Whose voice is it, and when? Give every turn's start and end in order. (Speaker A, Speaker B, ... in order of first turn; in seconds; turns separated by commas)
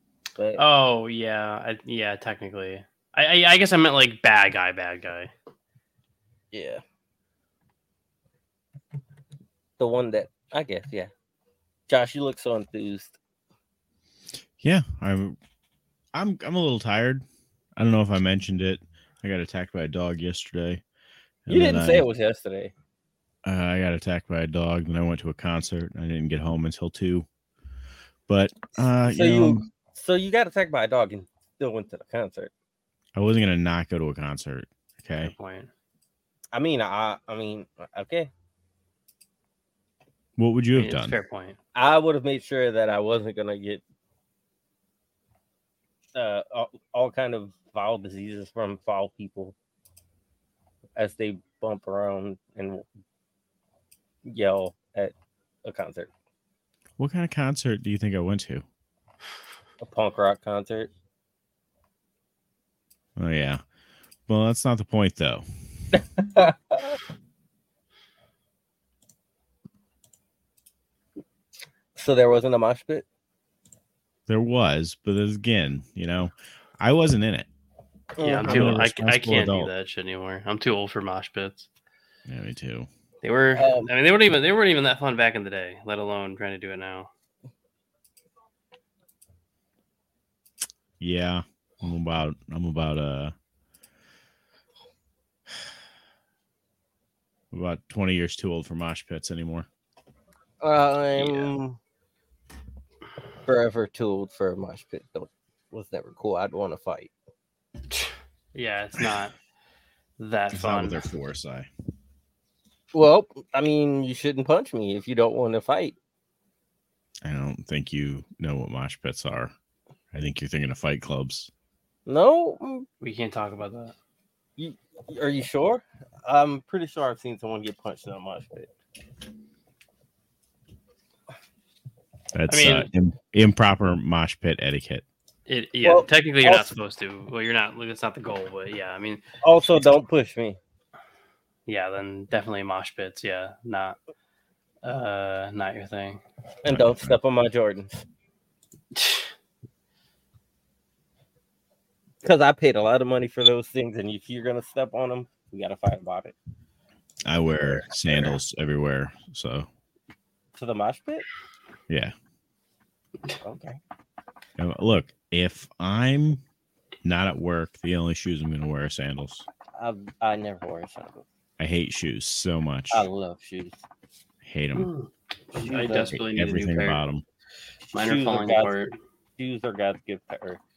Speaker A: 0.3-0.6, Speaker B: 0.6-5.3, Speaker A: 6.5-6.8, Speaker A: 9.8-11.1, Speaker A: 11.9-13.2, Speaker C: 14.6-15.4, Speaker C: 16.1-17.2, Speaker C: 17.8-20.8, Speaker C: 21.4-22.1, Speaker A: 21.5-22.7, Speaker C: 23.4-27.2, Speaker C: 28.3-29.6, Speaker A: 29.1-32.5, Speaker C: 33.1-35.3, Speaker B: 35.2-35.7, Speaker A: 36.5-38.3, Speaker C: 40.4-41.2, Speaker B: 40.7-41.6, Speaker A: 41.7-43.8, Speaker A: 46.1-49.5, Speaker A: 51.0-52.9, Speaker A: 54.2-55.1, Speaker A: 55.6-56.1, Speaker C: 57.0-58.6, Speaker A: 59.8-60.9, Speaker C: 63.1-63.6, Speaker C: 64.3-65.4, Speaker A: 65.9-67.0, Speaker A: 71.9-73.0, Speaker C: 74.3-77.5, Speaker A: 78.2-78.8, Speaker B: 78.2-81.7, Speaker C: 78.4-79.7, Speaker C: 82.3-82.9, Speaker B: 83.2-87.1, Speaker A: 83.5-83.9, Speaker C: 91.0-93.3, Speaker C: 97.5-99.7, Speaker A: 100.6-101.8, Speaker C: 101.1-101.5, Speaker A: 103.5-107.1, Speaker B: 108.5-109.3, Speaker B: 110.2-111.0, Speaker C: 110.5-111.7, Speaker A: 112.9-116.0, Speaker C: 117.2-119.5, Speaker C: 120.1-121.5, Speaker A: 122.0-122.9, Speaker B: 123.0-123.9, Speaker A: 124.6-128.7, Speaker C: 132.3-135.0, Speaker B: 132.5-132.9, Speaker B: 135.5-139.2, Speaker A: 135.8-136.7, Speaker A: 139.4-140.6, Speaker B: 141.7-144.0, Speaker B: 144.8-146.2, Speaker A: 146.6-148.0, Speaker C: 146.7-147.2, Speaker B: 148.9-149.3, Speaker A: 152.2-156.3, Speaker C: 157.2-159.7, Speaker A: 157.7-158.3, Speaker A: 160.5-161.2, Speaker C: 161.9-162.1, Speaker A: 163.4-163.8, Speaker C: 164.6-166.4, Speaker C: 167.0-169.4, Speaker A: 169.7-171.2, Speaker C: 171.6-173.1, Speaker A: 172.9-173.8, Speaker C: 174.4-174.9, Speaker B: 174.7-177.0, Speaker A: 175.5-176.2, Speaker C: 176.1-177.2, Speaker A: 177.9-178.7, Speaker B: 177.9-178.9, Speaker A: 179.4-180.6